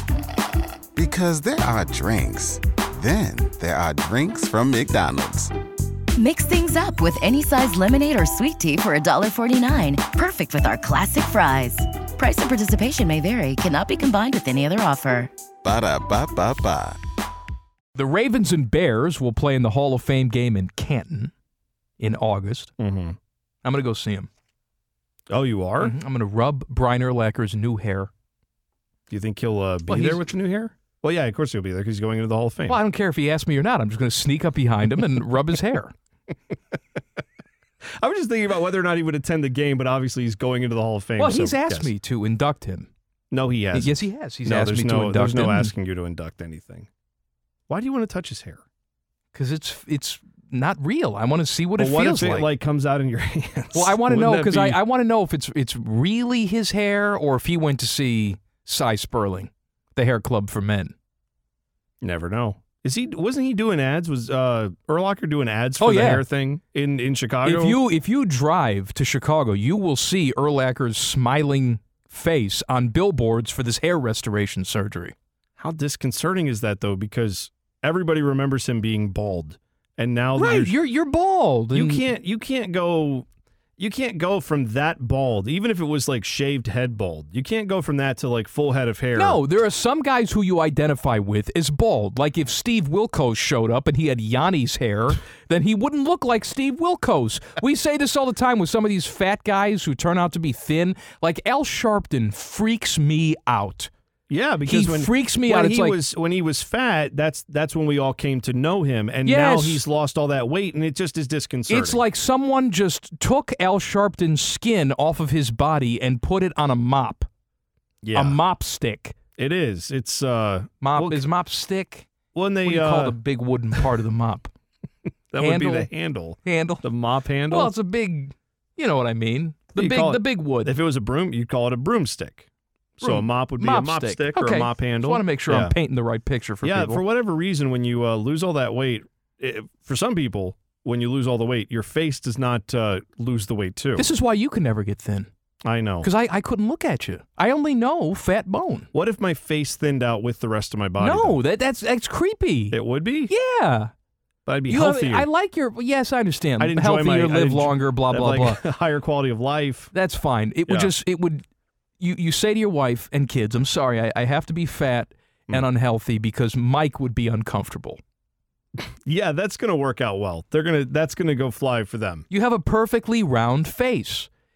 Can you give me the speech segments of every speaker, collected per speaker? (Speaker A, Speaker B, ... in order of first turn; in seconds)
Speaker A: 0.9-5.5, 15.6-17.0
Speaker B: 6.2-15.3
Speaker C: 17.9-21.3, 22.0-22.7, 23.6-24.3, 25.8-28.1, 29.9-30.2, 32.6-35.9, 41.2-42.9, 43.7-45.7, 49.3-52.5, 53.7-60.9, 65.8-66.2, 67.4-75.1, 80.3-82.0, 89.1-103.9, 104.6-106.0, 109.2-109.8, 111.7-117.3, 118.1-119.1, 120.8-122.1, 122.6-124.5, 125.4-125.9, 126.4-126.8, 127.5-130.7, 133.0-137.0, 143.9-145.3, 146.0-148.9, 151.0-152.8, 153.3-153.9, 154.7-158.6, 159.9-161.4, 162.0-168.0, 172.3-174.3
Speaker D: 22.8-23.2, 25.3-25.9, 29.1-32.8, 38.0-41.9, 43.3-46.9, 47.7-48.6, 51.8-54.8, 62.0-67.8, 75.6-80.7, 81.7-83.3, 83.8-89.4, 104.3-112.0, 118.0-118.4, 119.4-121.2, 122.3-123.2, 125.3-127.7, 129.8-132.5, 133.0-135.8, 136.6-144.1, 145.6-146.1, 148.9-151.4, 152.7-153.3, 154.4-155.3, 156.6-159.9, 160.7-160.9, 169.0-172.2